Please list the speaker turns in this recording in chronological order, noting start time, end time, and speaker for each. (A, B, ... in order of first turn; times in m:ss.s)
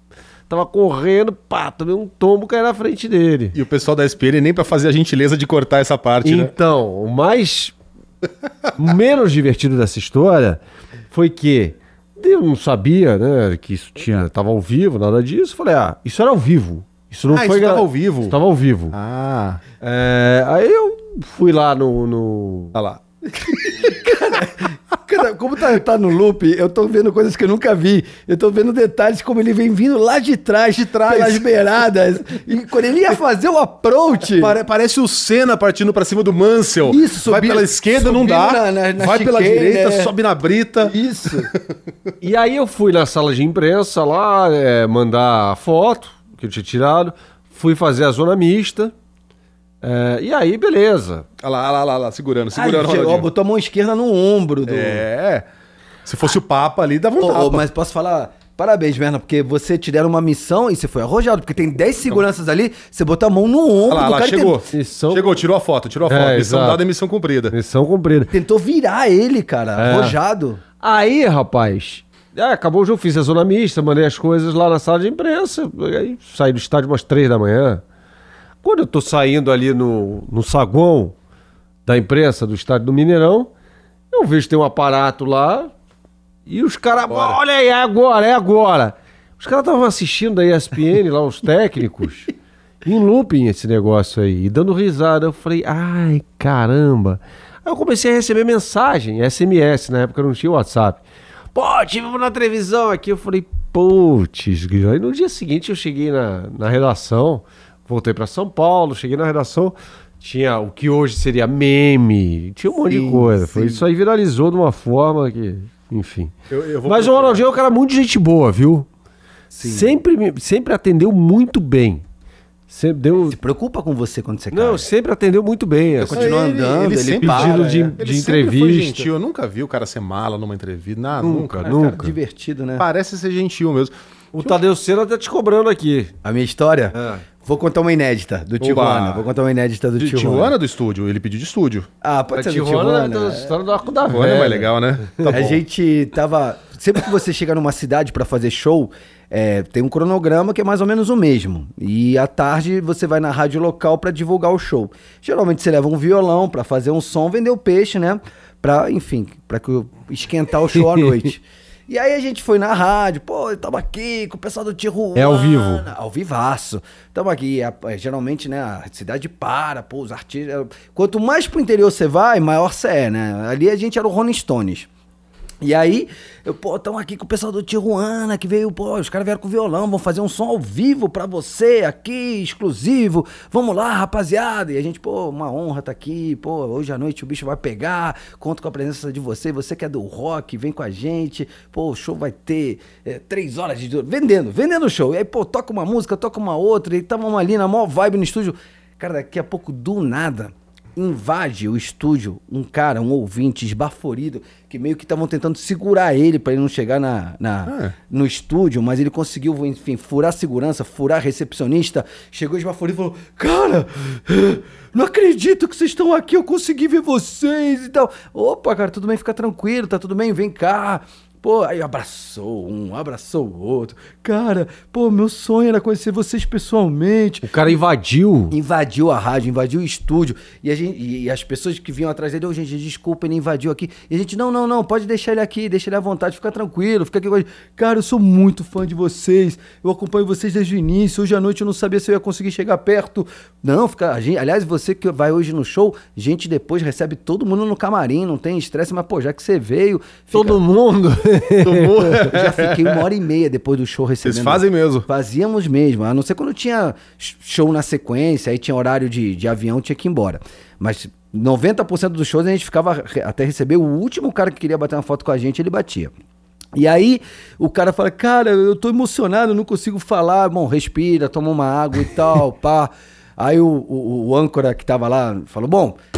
0:00.5-0:03.6 A
0:03.5-0:06.5 B
0:06.2-0:07.7 A
0:08.8-0:18.9 A
0:17.3-0:18.4 B
0:18.9-0:19.6 B
0:19.8-0:22.7 A
0:22.7-0:24.0 B
0:23.6-0:34.6 C
0:30.8-0:31.4 B
0:34.4-0:41.0 B
0:36.9-0:40.1 C
0:40.8-0:41.5 C
0:41.5-0:41.7 B
0:42.2-0:48.9 A
0:49.8-0:51.2 A
0:51.4-0:53.3 B
0:52.5-0:55.0 C
0:54.6-0:55.4 B
0:56.0-0:57.6 B
0:57.2-1:04.6 C
1:03.9-1:07.5 B
1:04.7-1:05.4 A
1:06.1-1:06.8 A
1:07.5-1:08.3 A
1:08.3-1:10.6 C
1:09.8-1:10.2 A
1:10.8-1:17.8 A
1:18.6-1:21.1 A
1:21.8-1:23.5 A
1:24.1-1:25.7 A
1:26.4-1:32.3 A
1:32.8-1:41.0 A
1:41.5-1:58.9 A
1:52.9-1:53.8 C
1:56.5-1:57.4 B
1:59.5-2:00.0 C
1:59.6-2:02.0 A
2:02.7-2:03.4 A
2:03.3-2:04.9 C
2:04.5-2:06.3 A
2:06.0-2:07.9 C
2:06.1-2:11.7 B
2:07.2-2:09.1 A
2:11.2-2:12.2 A
2:11.6-2:12.8 C
2:12.8-2:14.6 B
2:14.3-2:16.1 A
2:16.2-2:20.5 C
2:16.9-2:17.2 A
2:18.6-2:19.2 B
2:20.0-2:21.9 B
2:22.0-2:23.5 C
2:22.3-2:25.4 A
2:24.1-2:25.6 B
2:25.3-2:54.9 C
2:45.1-2:45.9 A
2:55.6-3:47.6 C
3:27.7-3:27.9 B
3:47.4-3:48.5 A
3:48.5-4:10.6 C
4:10.3-4:12.4 A
4:11.6-4:13.0 B
4:12.1-4:26.1 C
4:14.2-4:15.1 B
4:26.7-4:36.0 C